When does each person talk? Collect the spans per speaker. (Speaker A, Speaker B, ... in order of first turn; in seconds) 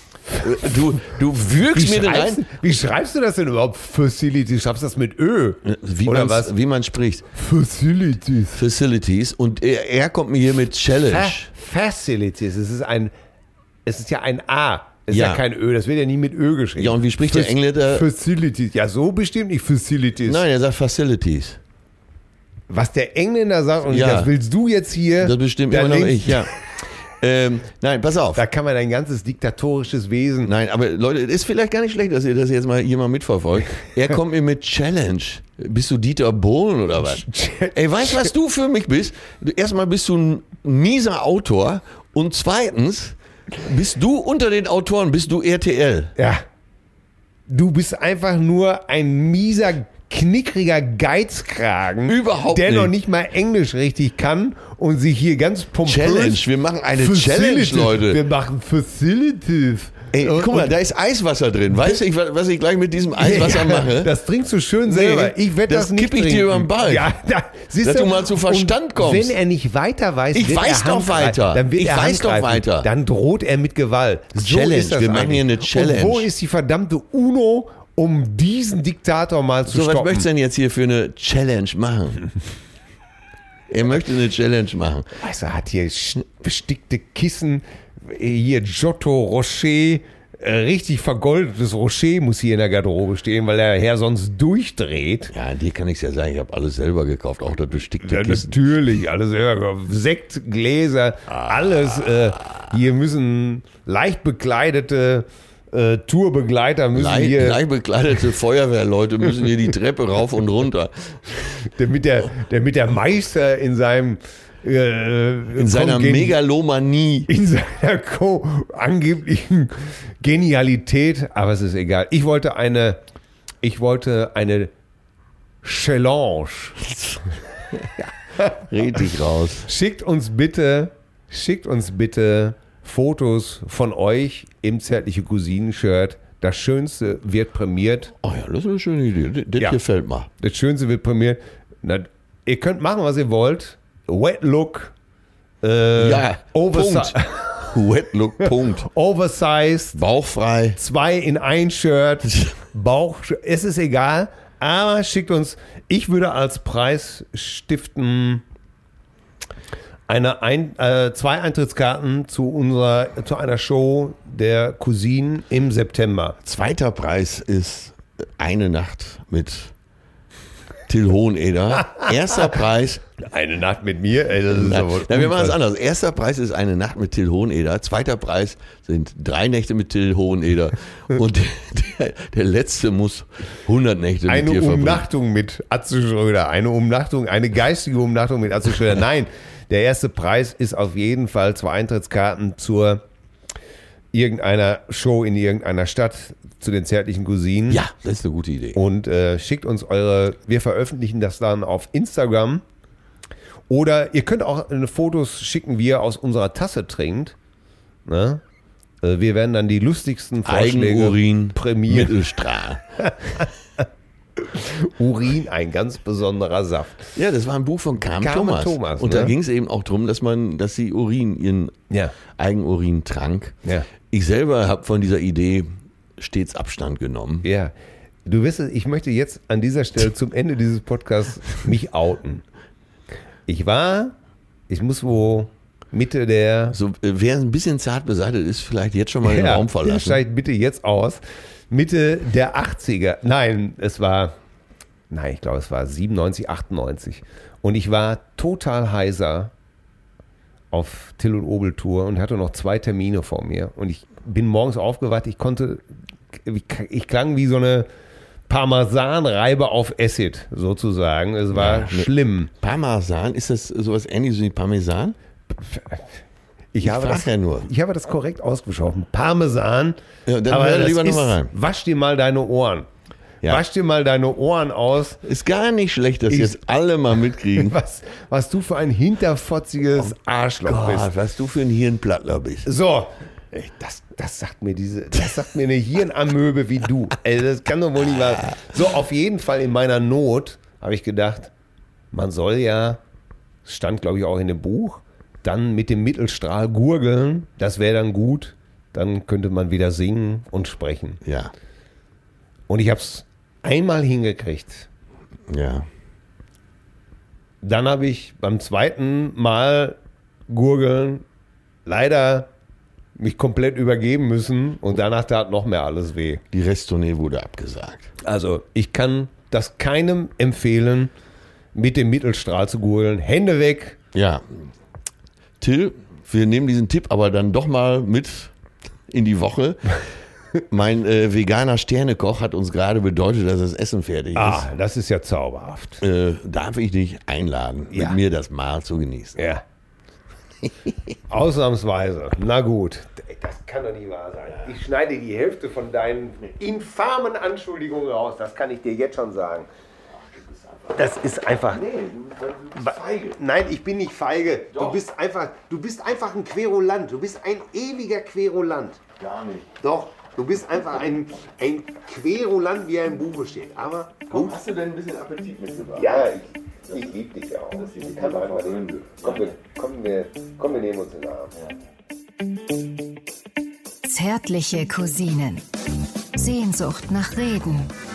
Speaker A: 0.3-2.4, 5.6-7.3, 8.5-11.5, 15.1-15.4, 16.8-18.1, 20.2-21.6, 23.9-24.3, 25.2-26.6, 27.2-28.4, 30.4-46.1, 52.1-52.9, 55.9-58.2, 60.1-64.1, 64.8-67.1, 67.8-69.3, 70.3-72.9, 74.3-76.3, 79.7-82.3, 83.7-85.1, 95.3-98.6, 106.9-111.2, 115.5-117.3, 128.7-129.7, 138.2-140.3, 145.9-148.9, 149.9-150.8, 166.4-169.7, 170.9-173.0, 174.5-185.0, 197.7-198.8, 210.4-212.8, 217.2-221.8, 222.3-223.6, 224.1-227.4, 236.7-240.2, 261.5-265.1, 266.8-267.7, 270.2-271.5, 275.2-277.7, 280.6-282.7, 301.2-301.5, 305.5-305.9, 316.5-318.1, 324.1-324.6, 325.6-328.5, 329.1-330.0, 330.7-334.6, 336.0-339.4, 350.1-351.0, 351.7-353.4, 354.7-355.0, 359.2-359.7, 364.3-366.4, 366.9-367.1, 367.7-369.6
Speaker B: 1.6-6.5, 7.3-8.6, 11.1-13.1, 13.8-20.4, 22.7-26.5, 28.3-30.5, 37.1-38.3, 46.2-46.4, 47.5-60.7, 63.2-80.3, 85.2-95.3, 98.0-107.6, 111.4-116.4, 117.3-123.0, 123.6-124.7, 125.6-126.9, 128.0-129.1, 129.6-138.1, 140.4-144.9, 145.6-147.8, 148.4-150.0, 150.8-158.4, 160.1-166.4, 173.2-175.6, 184.3-193.0, 194.1-197.8, 198.7-202.6, 203.7-207.3, 208.1-208.4, 209.0-212.2, 213.0-213.8, 214.4-217.1, 218.2-219.3, 221.9-222.1, 227.4-227.7, 228.2-232.4, 233.5-234.1, 234.7-236.8, 239.2-244.3, 245.1-249.5, 250.7-257.9, 258.5-262.5, 265.6-266.1, 266.7-270.0, 270.5-272.9, 273.4-275.2, 276.3-276.6, 277.5-281.1, 282.6-291.5, 292.1-293.0, 293.6-301.2, 302.7-304.9, 307.6-310.0, 310.5-311.2, 311.9-312.5, 313.2-316.4, 318.2-321.1, 321.7-324.0, 334.3-336.0, 337.9-338.2, 339.4-339.6, 341.3-349.7, 350.9-351.8, 352.7-359.0, 359.8-364.6, 366.0-371.5
Speaker C: 374.0-375.6, 376.3-377.9